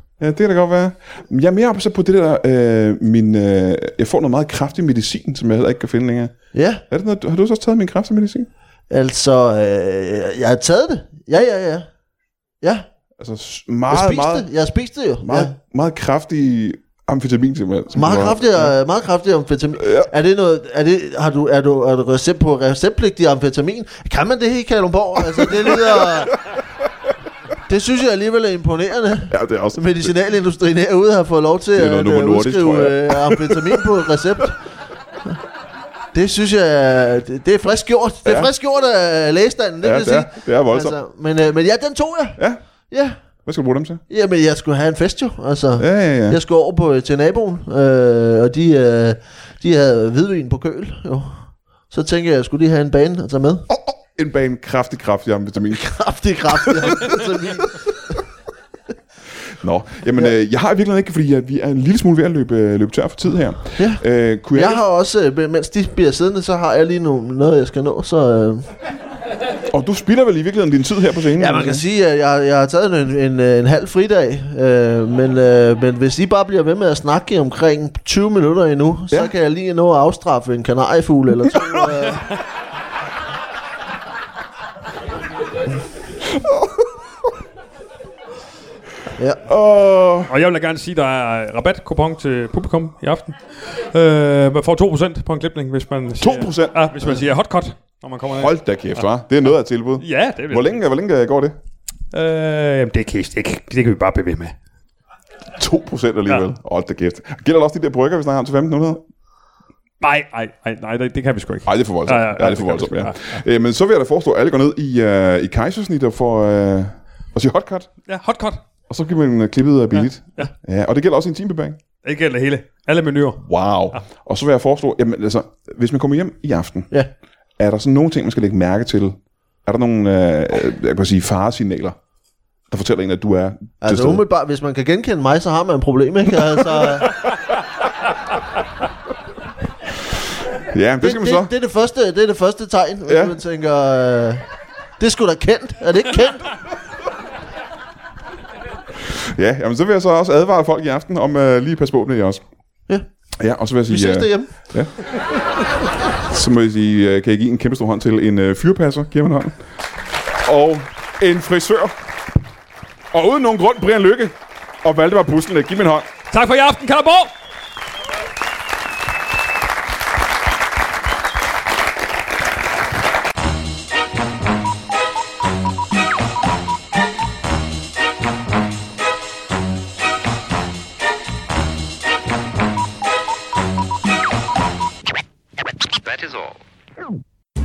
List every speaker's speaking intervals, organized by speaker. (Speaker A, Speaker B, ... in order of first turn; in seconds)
Speaker A: 0.2-6.4, 6.9-8.5, 13.2-14.5, 15.2-18.7, 19.8-20.1, 25.4-26.2, 29.3-30.1, 31.8-33.8, 38.2-38.5, 39.8-41.0, 43.4-44.0, 45.8-46.4, 53.7-55.9, 56.5-57.2, 59.5-64.8, 69.7-71.8, 86.3-86.7, 89.5-90.3, 96.2-97.0, 98.3-101.5, 105.5-109.0, 111.7-117.9, 118.9-121.8, 123.4-126.9, 127.6-132.0, 132.7-134.2, 140.7-141.5, 143.1-143.3, 149.1-152.4, 153.4-154.9, 156.3-159.6, 160.4-161.9, 163.1-166.1
Speaker B: 6.5-6.8, 8.9-11.9, 13.9-15.5, 17.9-26.4, 27.7-34.6, 36.1-42.4, 42.9-43.1, 44.1-53.6, 55.7-58.2, 63.8-64.0, 64.5-68.7, 71.4-82.2, 133.8-137.2, 141.0-144.4, 145.0-146.5, 153.9-154.5
Speaker C: 90.3-98.5, 100.0-100.8, 102.1-104.5, 110.0-113.4, 118.1-118.6, 120.0-120.5, 122.0-124.0, 166.3-167.3